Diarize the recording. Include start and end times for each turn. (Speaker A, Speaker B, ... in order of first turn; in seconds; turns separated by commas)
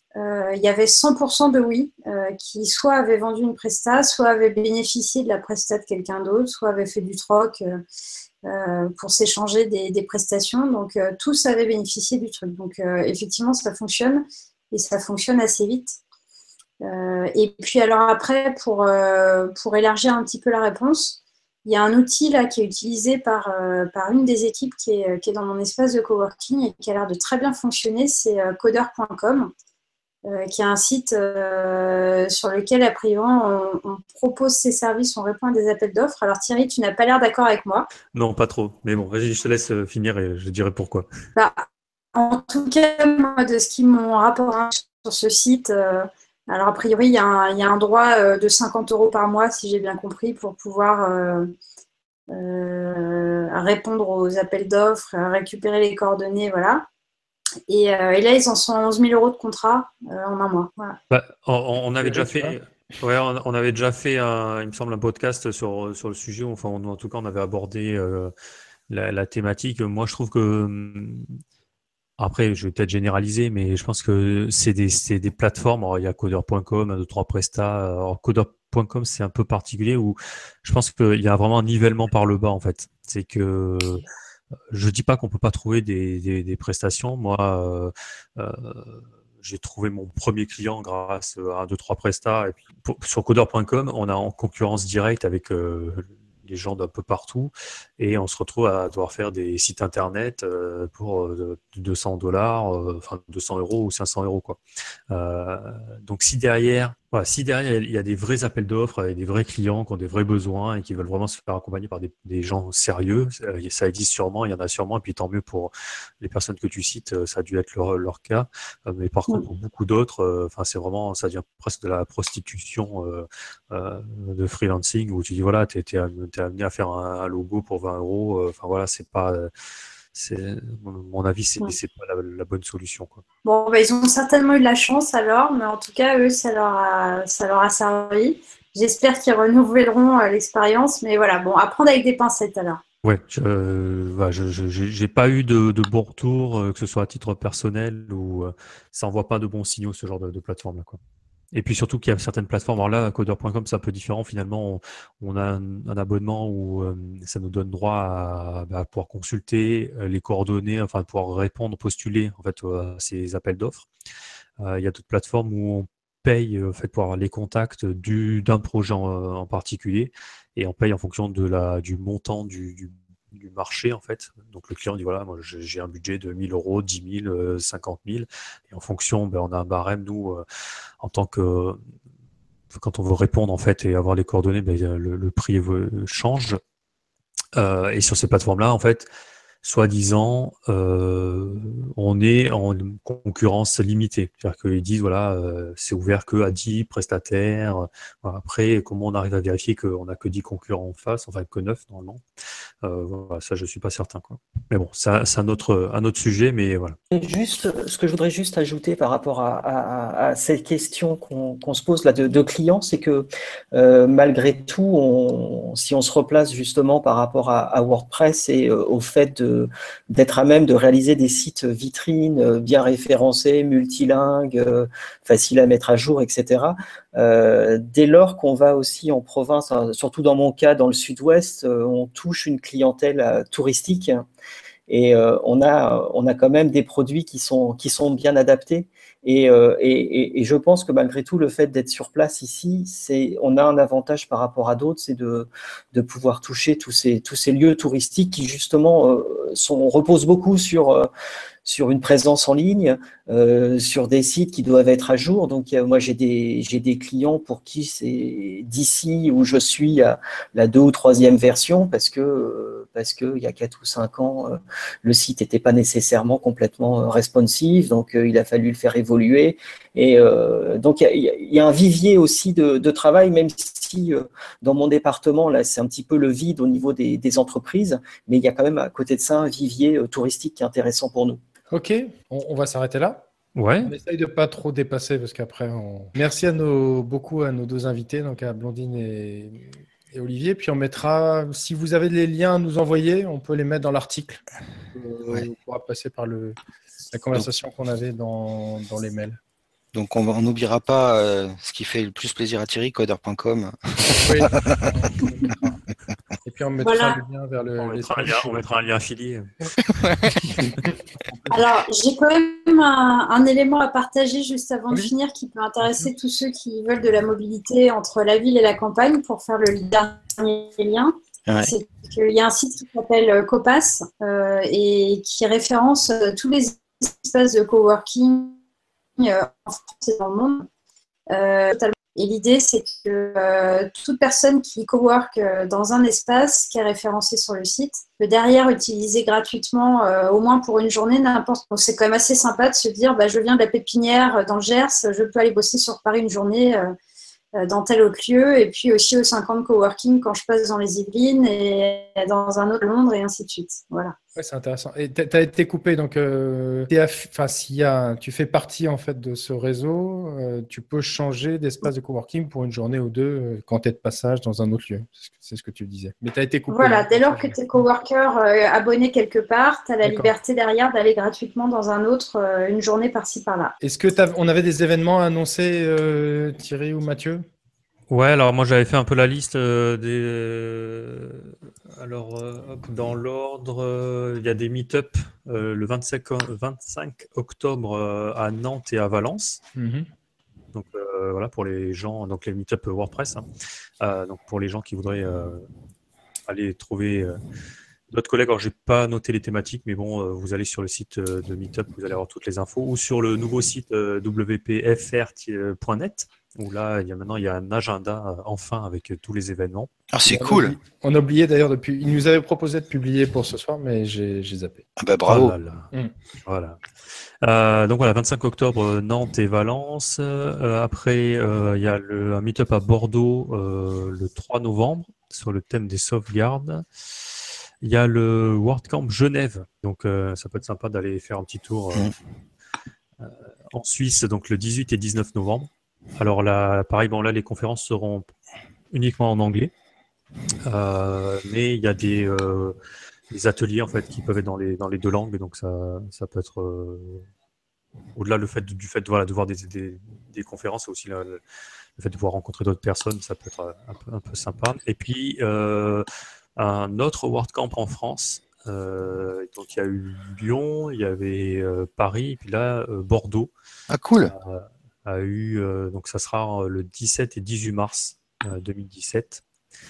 Speaker A: 0.2-7.8, Speaker A: 8.4-16.0, Speaker A: 16.8-29.5, Speaker A: 30.3-37.9, Speaker B: 38.1-41.1, Speaker A: 41.4-41.6, Speaker A: 42.1-51.5, Speaker A: 52.3-56.9, Speaker A: 57.7-61.0, Speaker B: 61.1-68.3, Speaker C: 62.0-62.6, Speaker B: 68.9-71.3, Speaker B: 72.2-84.1, Speaker B: 84.7-129.5, Speaker B: 130.1-133.2, Speaker A: 133.4-142.8, Speaker B: 143.0-151.0, Speaker B: 151.5-163.9, Speaker B: 164.6-180.4, Speaker B: 181.0-181.8, Speaker B: 182.7-186.6, Speaker B: 187.6-189.1, Speaker B: 189.6-202.2, Speaker B: 202.8-207.0, Speaker D: 207.1-234.2, Speaker D: 234.9-251.1, Speaker D: 251.7-281.4, Speaker C: 281.7-283.3, Speaker B: 283.6-283.9, Speaker C: 283.8-294.4, Speaker C: 294.9-296.6, Speaker C: 297.1-299.4, Speaker E: 299.9-304.9, Speaker C: 304.2-305.7, Speaker C: 306.4-308.6, Speaker A: 306.8-307.2, Speaker B: 307.8-309.6, Speaker E: 310.0-310.4, Speaker A: 311.5-328.6, Speaker E: 321.5-321.7, Speaker A: 329.2-330.7, Speaker A: 331.3-346.9, Speaker A: 347.6-354.1, Speaker C: 354.4-367.8, Speaker A: 366.7-373.7, Speaker C: 370.0-370.3, Speaker C: 373.8-377.4, Speaker B: 378.1-389.6, Speaker C: 389.8-390.1, Speaker B: 390.7-393.4, Speaker B: 394.0-395.6, Speaker B: 396.5-397.4, Speaker B: 398.1-409.9, Speaker E: 410.1-410.8, Speaker C: 410.3-414.8, Speaker E: 415.0-415.6, Speaker B: 415.3-415.9, Speaker B: 416.4-416.8, Speaker B: 417.4-426.9, Speaker B: 427.8-432.1, Speaker B: 433.2-438.3, Speaker B: 438.9-439.7, Speaker B: 440.6-442.8, Speaker B: 443.3-447.3, Speaker B: 448.1-451.4, Speaker B: 452.0-456.1, Speaker B: 456.6-463.5, Speaker E: 463.9-464.3, Speaker B: 464.3-469.4